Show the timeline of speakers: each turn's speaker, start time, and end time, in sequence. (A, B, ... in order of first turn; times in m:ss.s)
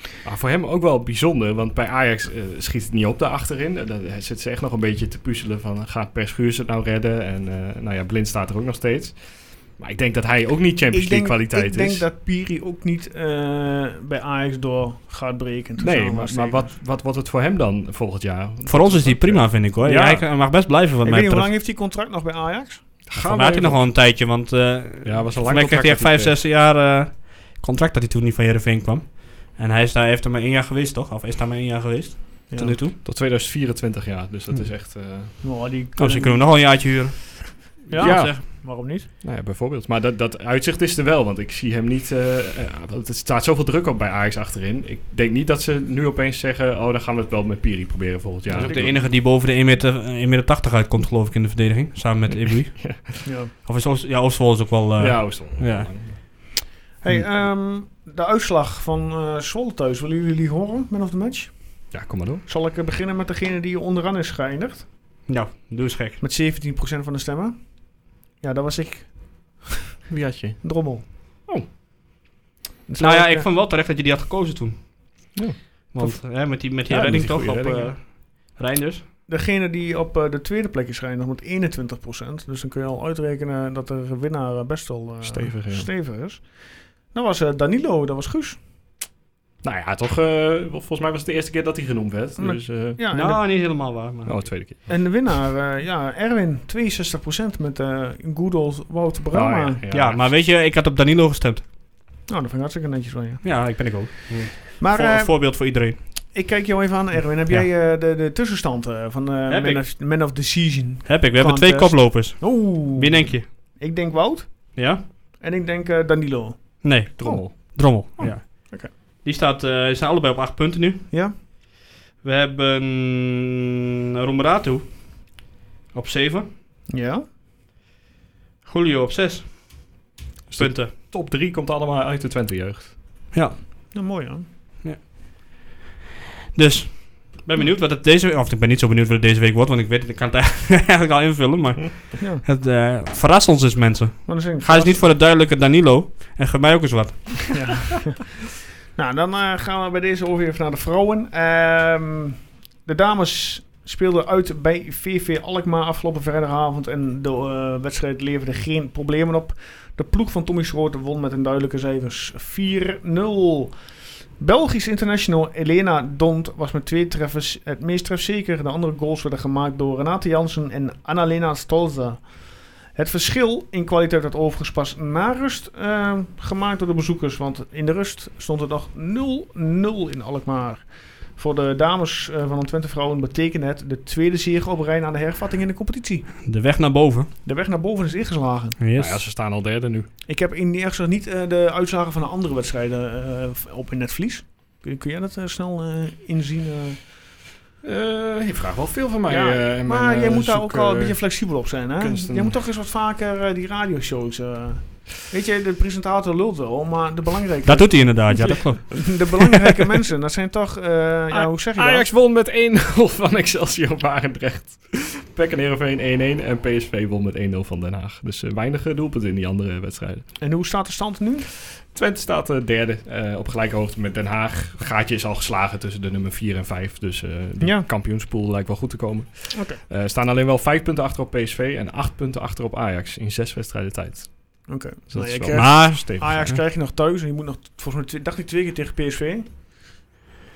0:00.2-0:12.1 A
0:10.9-0:16.7 B
0:15.8-0:20.2 A
0:18.6-0:21.5 C
0:19.8-0:22.8 B
0:23.0-0:24.1 A
0:23.1-0:33.0 C
0:25.0-0:26.4 A
0:32.5-0:32.8 B
0:33.0-0:35.4 A
0:35.4-0:36.8 B
0:36.0-0:38.4 C
0:37.9-0:39.1 B
0:37.9-0:49.0 A
0:48.5-0:49.0 B
0:48.6-0:56.5 C
0:52.3-0:53.1 A
0:53.2-0:53.5 B
0:55.0-0:56.2 A
0:57.0-1:04.9 B
1:01.9-1:02.4 A
1:05.3-1:06.2 C
1:06.2-1:09.8 B
1:10.1-1:11.7 A
1:10.6-1:11.0 B
1:12.9-1:13.5 B
1:13.0-1:15.4 C
1:15.3-1:16.1 A
1:15.9-1:19.0 C
1:16.8-1:18.0 A
1:19.3-1:28.6 B
1:25.2-1:25.9 A
1:29.6-1:33.0 A
1:32.4-1:33.4 B
1:33.1-1:34.6 C
1:34.2-1:35.2 A
1:34.9-1:39.8 B
1:39.3-1:40.3 A
1:39.9-1:41.6 C
1:42.3-1:44.0 B
1:43.4-1:46.3 C
1:44.8-1:58.9 B
1:49.5-1:49.8 C
1:51.0-1:53.5 C
1:54.7-1:55.0 C
1:56.8-2:01.6 C
1:57.2-1:57.5 A
2:01.1-2:01.4 B
2:02.2-2:05.4 C
2:05.9-2:06.5 C
2:06.9-2:07.2 B
2:08.6-2:10.0 C
2:10.5-2:13.0 A
2:10.6-2:10.9 C
2:13.3-2:13.9 C
2:13.9-2:14.4 B
2:14.8-2:15.6 C
2:16.5-2:27.6 C
2:24.2-2:25.2 B
2:27.5-2:28.4 B
2:28.9-2:43.8 B
2:44.4-3:06.3 B
3:06.4-3:07.3 C
3:07.4-3:08.8 B
3:08.8-3:09.2 C
3:09.0-3:10.1 A
3:10.2-3:17.0 B
3:17.8-3:22.6 A
3:19.3-3:32.1 B
3:27.6-3:29.4 C
3:31.3-3:40.4 A
3:40.4-3:41.5 B
3:41.8-3:56.6 A
3:47.6-3:47.9 B
3:49.5-3:49.8 B
3:54.7-3:59.5 B
3:55.5-3:56.4 C